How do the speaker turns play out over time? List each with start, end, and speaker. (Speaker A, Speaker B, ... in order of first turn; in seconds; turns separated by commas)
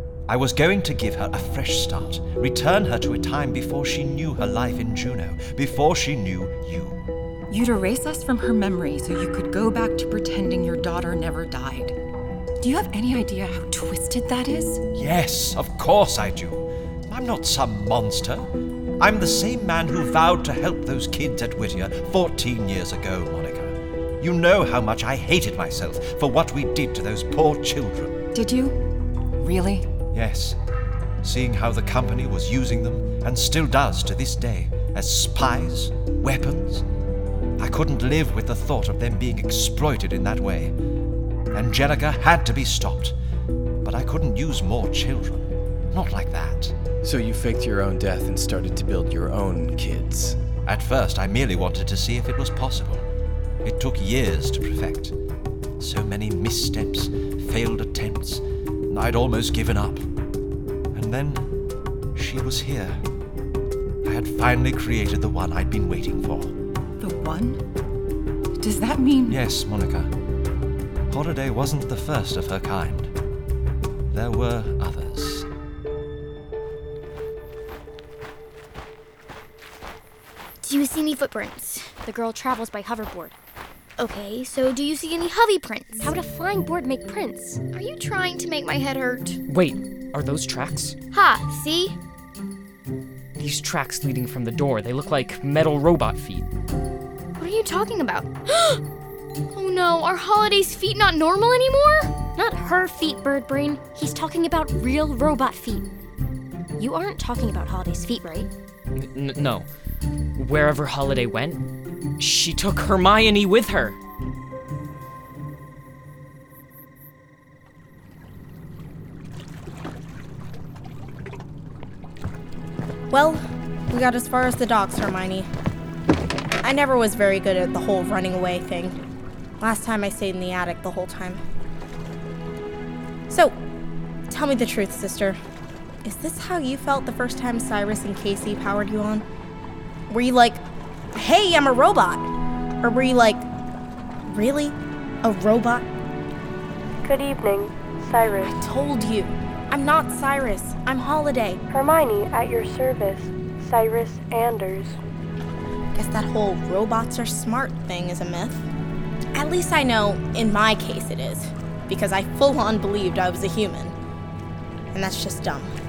Speaker A: 0.3-7.0, Speaker B: 7.5-11.9, Speaker B: 12.6-14.8, Speaker A: 14.9-18.5, Speaker A: 19.0-28.1, Speaker B: 28.3-28.7, Speaker B: 29.4-29.9, Speaker A: 30.1-30.6, Speaker A: 31.2-36.8, Speaker A: 37.6-40.7, Speaker A: 41.5-43.1, Speaker A: 43.8-46.7, Speaker C: 47.0-50.4, Speaker A: 50.6-53.0, Speaker A: 53.6-55.1, Speaker A: 55.8-60.0, Speaker A: 60.9-61.5, Speaker A: 62.1-63.0, Speaker A: 64.0-66.5, Speaker B: 67.0-67.6, Speaker B: 68.6-69.4, Speaker A: 69.3-70.1, Speaker A: 71.1-73.1, Speaker A: 74.1-75.5, Speaker D: 80.6-82.0, Speaker E: 82.0-83.3, Speaker D: 84.0-86.1, Speaker E: 86.0-87.6, Speaker D: 87.7-89.4, Speaker F: 89.5-91.0, Speaker D: 91.1-92.0, Speaker F: 93.3-96.5, Speaker D: 97.4-98.8, Speaker D: 99.5-102.2, Speaker E: 102.3-105.9, Speaker E: 106.8-108.5, Speaker F: 109.0-109.7, Speaker F: 110.3-111.6, Speaker F: 112.2-114.0, Speaker G: 123.1-125.5, Speaker G: 126.6-129.0, Speaker G: 129.6-131.4, Speaker G: 133.3-133.5, Speaker G: 134.3-135.4, Speaker G: 136.0-139.2, Speaker G: 140.1-140.6, Speaker G: 141.1-142.3, Speaker G: 142.8-143.4, Speaker G: 144.3-145.9, Speaker H: 147.0-148.5, Speaker G: 148.4-151.6, Speaker H: 151.7-155.0, Speaker G: 155.9-158.7, Speaker G: 159.3-163.9, Speaker G: 164.9-165.7